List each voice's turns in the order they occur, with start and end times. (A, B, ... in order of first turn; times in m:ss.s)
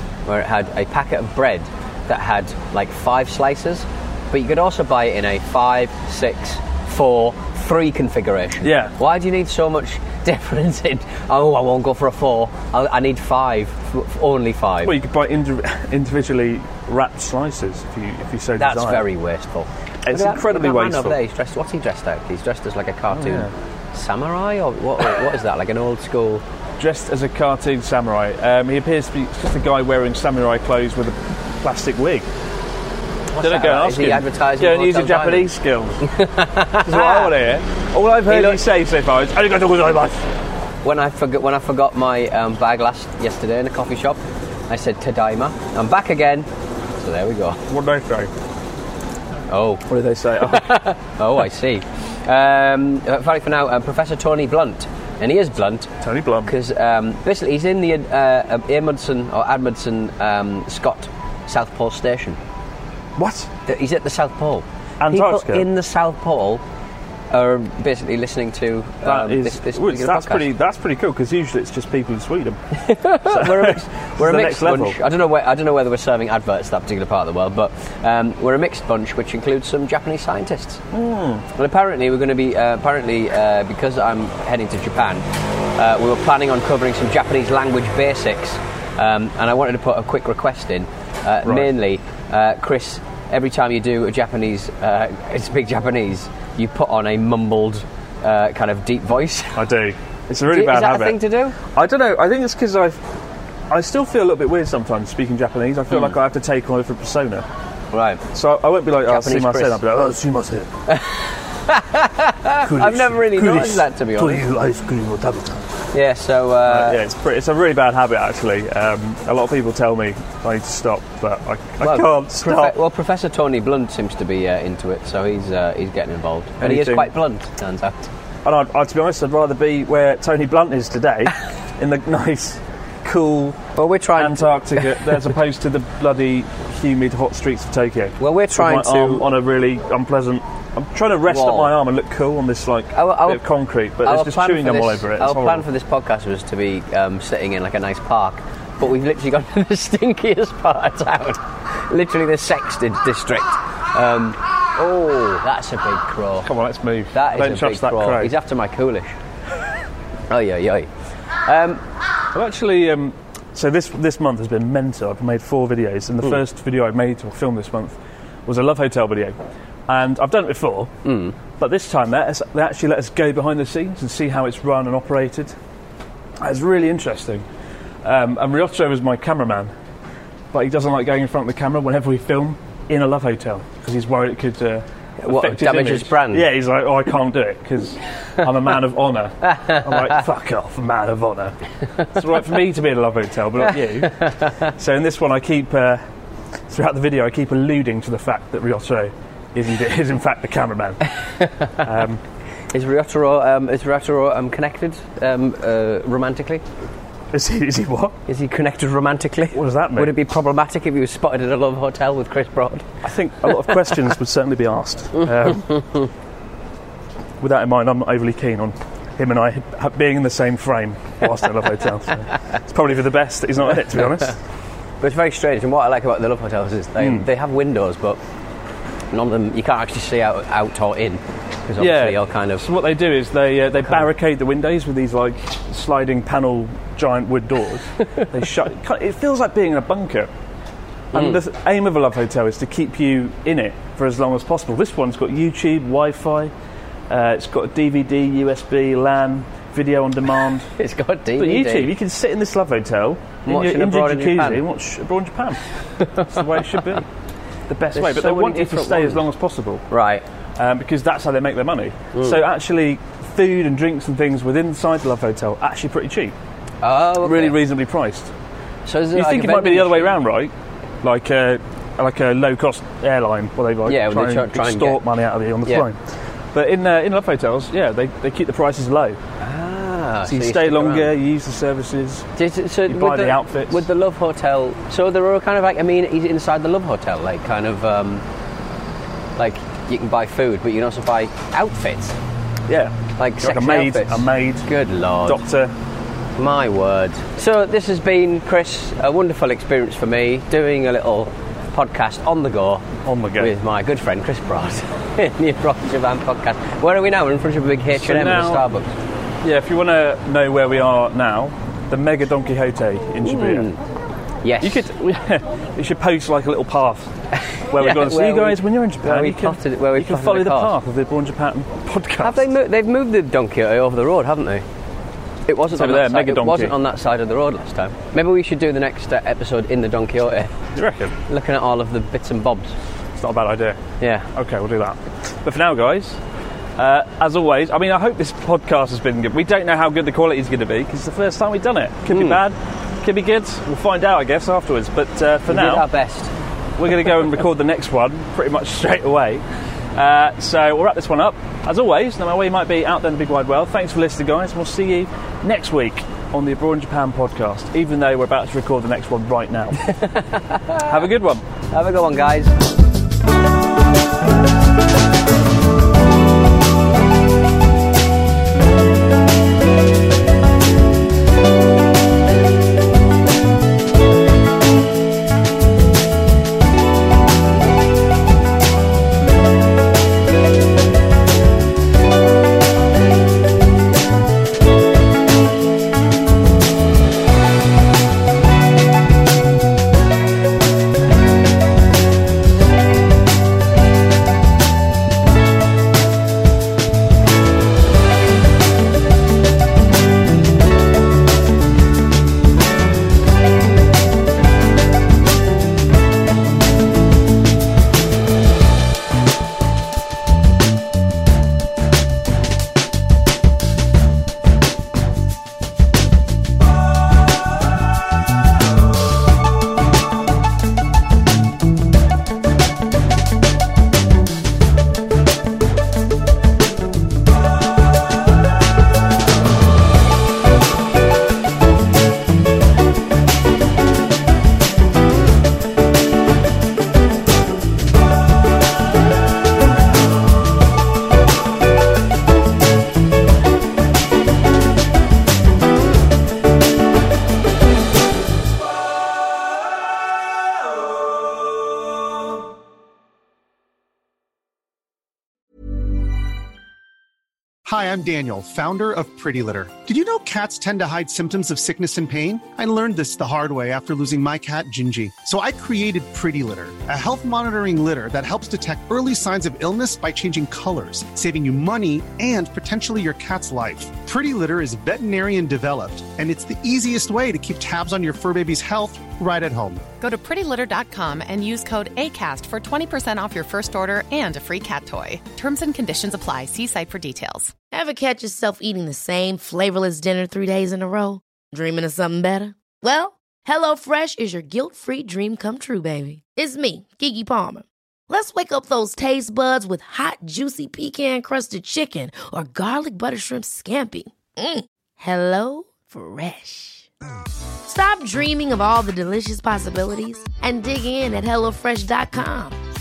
0:00.2-0:15.0 A
0:08.6-0:08.9 B
0:14.8-0:19.0 B
0:18.6-0:26.4 A
0:20.0-0:21.2 B
0:23.1-0:23.5 B
0:26.8-0:32.3 B
0:33.3-0:35.5 A
0:33.4-0:36.0 B
0:36.0-0:37.3 A
0:36.8-0:40.3 B
0:38.3-0:38.6 A
0:40.8-0:47.6 A
0:47.7-0:48.3 B
0:49.5-0:49.8 A
0:49.8-0:50.8 B
0:50.4-0:55.9 A
0:56.0-0:56.5 B
0:56.4-1:02.4 A
1:03.2-1:03.5 B
1:03.6-1:06.6 A
1:05.0-1:05.7 B
1:07.3-1:10.5 A
1:09.0-1:12.6 B
1:12.8-1:20.8 A
1:13.2-1:15.0 B
1:20.9-1:21.4 B
1:21.5-1:39.7 A
1:31.4-1:31.7 B
1:39.5-1:43.0 B
1:40.4-1:41.6 A
1:43.7-1:47.5 B
1:47.9-1:48.2 A
1:48.3-1:50.7 B
1:49.0-1:49.8 A
1:50.9-1:54.4 A
1:52.6-1:55.7 B
1:55.9-1:57.0 A
1:56.6-2:02.8 B
2:01.8-2:08.1 A
2:06.6-2:07.1 B
2:08.4-2:13.6 B
2:13.8-2:15.3 A
2:14.2-2:25.6 B
2:18.2-2:19.2 A
2:21.3-2:21.7 A
2:22.9-2:23.4 A
2:24.0-2:36.5 A
2:36.4-2:38.3 B
2:37.1-2:39.2 A
2:40.3-2:41.8 A
2:42.3-2:49.4 B
2:49.9-2:50.9 B
2:51.0-2:51.4 A
2:51.5-2:55.5 B
2:56.4-2:57.4 B
2:58.0-2:59.7 B
3:00.5-3:16.0 B
3:05.2-3:06.5 A
3:09.4-3:10.2 A
3:13.6-3:14.7 A
3:16.7-3:21.0 B
3:21.3-3:21.8 A
3:21.8-3:22.2 B
3:22.7-3:26.6 A
3:27.3-3:28.2 B
3:28.3-3:32.9 A
3:29.5-3:30.1 B
3:33.0-3:35.8 B
3:37.4-3:44.4 B
3:45.0-3:48.2 A
3:47.0-3:47.3 B
3:49.1-3:52.6 A
3:51.8-4:00.3 B
4:01.1-4:06.5 B
4:01.1-4:01.4 A
4:07.1-4:10.7 B
4:10.8-4:11.9 A
4:11.4-4:17.1 B
4:13.4-4:14.6 A
4:16.0-4:16.7 A
4:17.7-4:19.8 B
4:17.9-4:19.2 A
4:19.9-4:20.2 A
4:20.6-4:26.3 B
4:22.1-4:22.4 A
4:26.8-4:27.6 A
4:27.2-4:28.3 B
4:28.8-4:30.2 A
4:29.1-4:30.5 B
4:31.0-4:36.0 B
4:33.9-4:35.0 A
4:36.5-4:39.2 B
4:39.4-4:41.1 A
4:40.2-4:42.3 B
4:42.4-4:48.2 A
4:42.8-4:43.9 B
4:49.4-4:52.2 A
4:52.7-4:54.7 B
4:53.2-4:55.4 A
4:55.2-4:55.7 B
4:56.4-5:08.9 A
5:03.0-5:03.5 B
5:07.9-5:08.7 B
5:09.4-5:13.7 B
5:13.2-5:13.8 A
5:14.4-5:14.9 A
5:14.6-5:17.1 B
5:17.4-5:20.7 A
5:17.7-5:22.5 B
5:22.2-5:24.6 A
5:25.4-5:30.6 A
5:25.7-5:26.8 B
5:30.7-5:31.1 B
5:31.3-5:32.8 A
5:33.2-5:36.2 B
5:34.0-5:34.3 A
5:36.8-5:45.9 B
5:42.1-5:42.4 A
5:45.5-5:46.3 A
5:46.8-5:49.4 B
5:49.9-5:59.8 B
5:59.8-6:00.9 A
6:00.8-6:01.4 B
6:01.7-6:02.5 A
7:37.6-7:59.8 C
8:00.0-8:07.5 D
8:07.7-8:26.9 E
8:27.6-8:32.6 E